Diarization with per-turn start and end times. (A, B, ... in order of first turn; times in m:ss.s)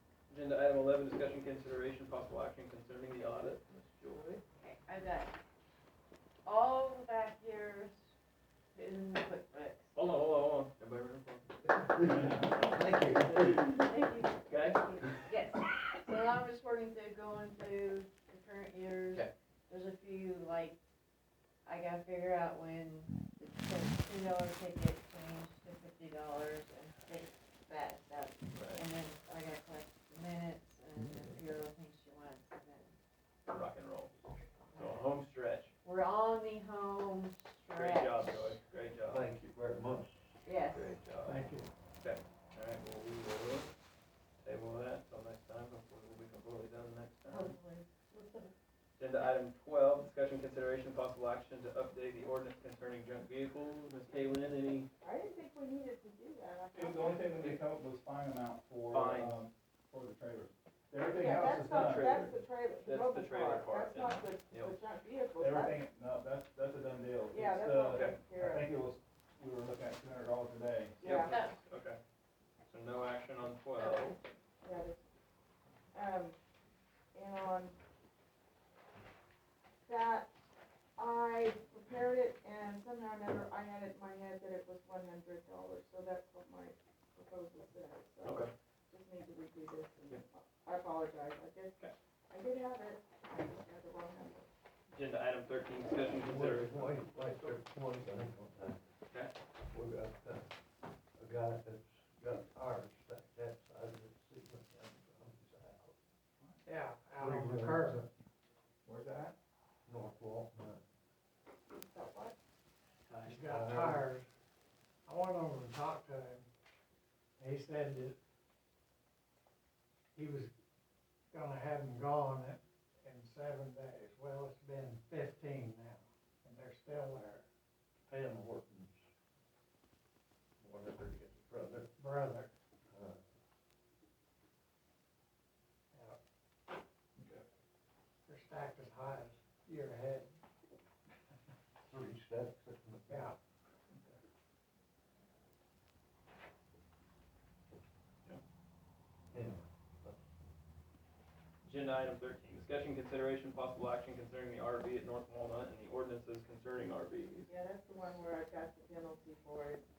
0:00.3-0:04.4 A
0:04.5-0:05.4 B
0:06.4-0:08.1 B
0:08.7-0:09.9 B
0:09.9-0:11.5 A
0:11.8-0:13.6 C
0:13.2-0:20.8 B
0:14.5-0:14.9 A
0:21.6-0:33.0 B
0:28.5-0:28.8 A
0:33.5-0:34.1 A
0:34.7-0:35.0 B
0:34.7-0:35.7 A
0:35.8-0:38.3 B
0:37.7-0:39.4 A
0:39.1-0:40.4 C
0:40.4-0:41.0 B
0:40.7-0:43.7 A
0:41.2-0:41.7 D
0:44.4-0:47.5 A
0:47.3-0:48.5 B
0:49.0-0:54.9 A
0:55.0-0:57.5 E
0:56.7-1:02.2 F
0:58.9-0:59.4 A
1:01.0-1:05.8 E
1:01.7-1:04.8 A
1:05.4-1:11.1 F
1:07.3-1:08.7 E
1:07.9-1:08.2 A
1:11.0-1:12.0 A
1:11.0-1:11.4 E
1:11.1-1:11.6 B
1:12.6-1:14.2 A
1:13.8-1:14.1 B
1:14.6-1:15.0 E
1:15.9-1:16.4 E
1:17.1-1:17.8 E
1:19.8-1:20.3 E
1:21.0-1:34.5 E
1:28.2-1:28.5 A
1:34.9-1:37.5 A
1:36.2-1:38.8 C
1:39.7-1:40.6 C
1:41.1-1:46.0 C
1:46.6-1:48.0 D
1:47.2-1:48.1 C
1:48.8-1:49.3 F
1:49.8-1:50.8 C
1:51.7-1:52.4 E
1:53.1-1:53.4 A
1:53.2-1:54.3 D
1:53.3-1:54.1 C
1:55.0-1:56.4 D
1:57.4-1:58.2 D
2:00.1-2:00.5 D
2:01.3-2:07.4 D
2:08.1-2:09.0 C
2:10.6-2:11.9 C
2:12.0-2:12.5 D
2:12.9-2:13.2 C
2:15.9-2:16.2 D
2:17.2-2:17.4 F
2:18.2-2:20.3 D
2:21.8-2:23.4 C
2:23.1-2:23.4 D
2:29.3-2:30.4 C
2:31.6-2:37.5 A
2:37.5-2:39.8 E